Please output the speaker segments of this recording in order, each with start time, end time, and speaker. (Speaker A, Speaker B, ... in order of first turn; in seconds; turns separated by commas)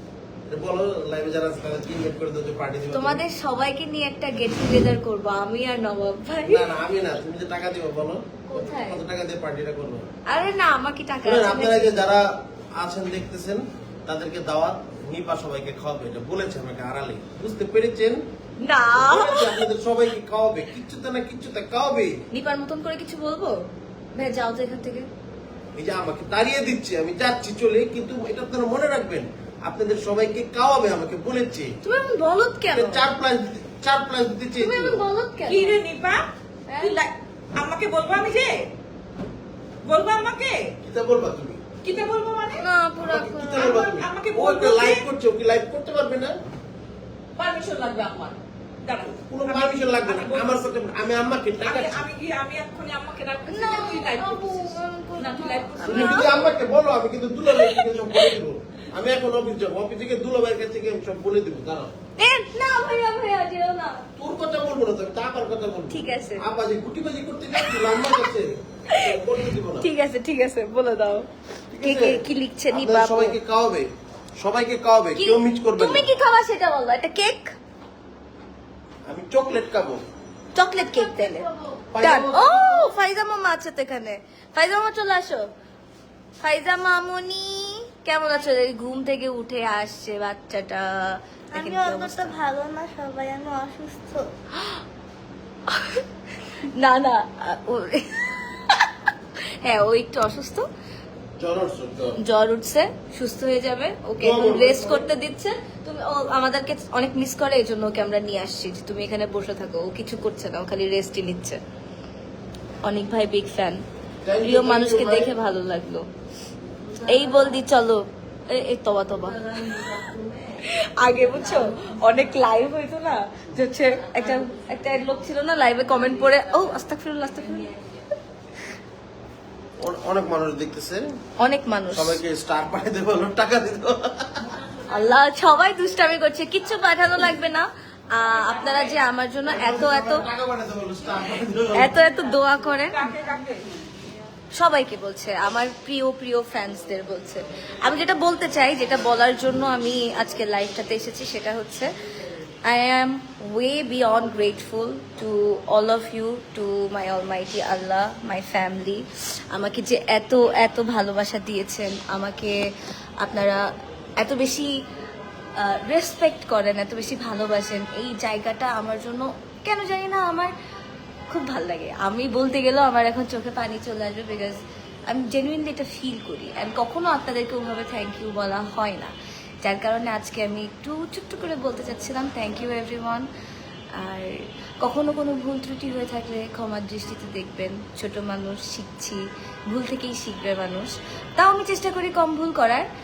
Speaker A: 0.5-3.2, Speaker B: 2.9-6.7, Speaker A: 6.5-10.1, Speaker B: 8.5-9.0, Speaker B: 10.3-12.0, Speaker A: 11.2-12.2, Speaker A: 12.8-18.2, Speaker B: 18.6-19.7, Speaker A: 18.9-22.1, Speaker B: 22.3-23.6, Speaker B: 24.1-25.1, Speaker A: 25.7-31.7, Speaker B: 31.8-33.0, Speaker A: 32.7-35.0, Speaker B: 34.5-35.8, Speaker C: 35.5-38.7, Speaker B: 36.7-37.0, Speaker C: 39.8-40.7, Speaker A: 40.8-41.6, Speaker C: 41.8-42.6, Speaker B: 42.5-43.7, Speaker A: 43.0-46.4, Speaker C: 43.5-45.0, Speaker C: 47.4-50.7, Speaker A: 49.3-52.0, Speaker C: 51.6-56.5, Speaker B: 53.5-56.5, Speaker A: 55.8-61.9, Speaker B: 57.5-58.3, Speaker B: 62.2-64.0, Speaker A: 64.2-69.9, Speaker B: 65.9-66.4, Speaker B: 67.5-68.3, Speaker B: 68.9-69.2, Speaker B: 69.8-71.3, Speaker A: 71.7-73.9, Speaker B: 71.8-73.3, Speaker A: 74.4-76.1, Speaker B: 75.1-77.5, Speaker A: 79.1-80.0, Speaker B: 80.5-85.5, Speaker A: 81.9-82.9, Speaker B: 86.4-92.4, Speaker D: 91.5-94.3, Speaker B: 94.5-94.8, Speaker B: 95.7-96.0, Speaker B: 96.6-100.7, Speaker A: 101.4-102.2, Speaker B: 102.2-111.6, Speaker A: 104.2-105.1, Speaker B: 112.8-113.8, Speaker A: 114.2-115.3, Speaker B: 114.4-116.1, Speaker B: 117.0-127.7, Speaker A: 129.8-131.1, Speaker B: 131.4-132.2, Speaker A: 131.9-134.6, Speaker B: 134.8-140.2, Speaker C: 138.4-138.9, Speaker A: 139.5-142.0, Speaker B: 141.7-143.1, Speaker C: 142.9-143.7, Speaker B: 144.5-151.9, Speaker B: 152.6-162.6, Speaker B: 163.2-163.7, Speaker B: 164.2-164.7, Speaker B: 165.6-170.5, Speaker B: 171.3-183.2, Speaker B: 183.9-192.8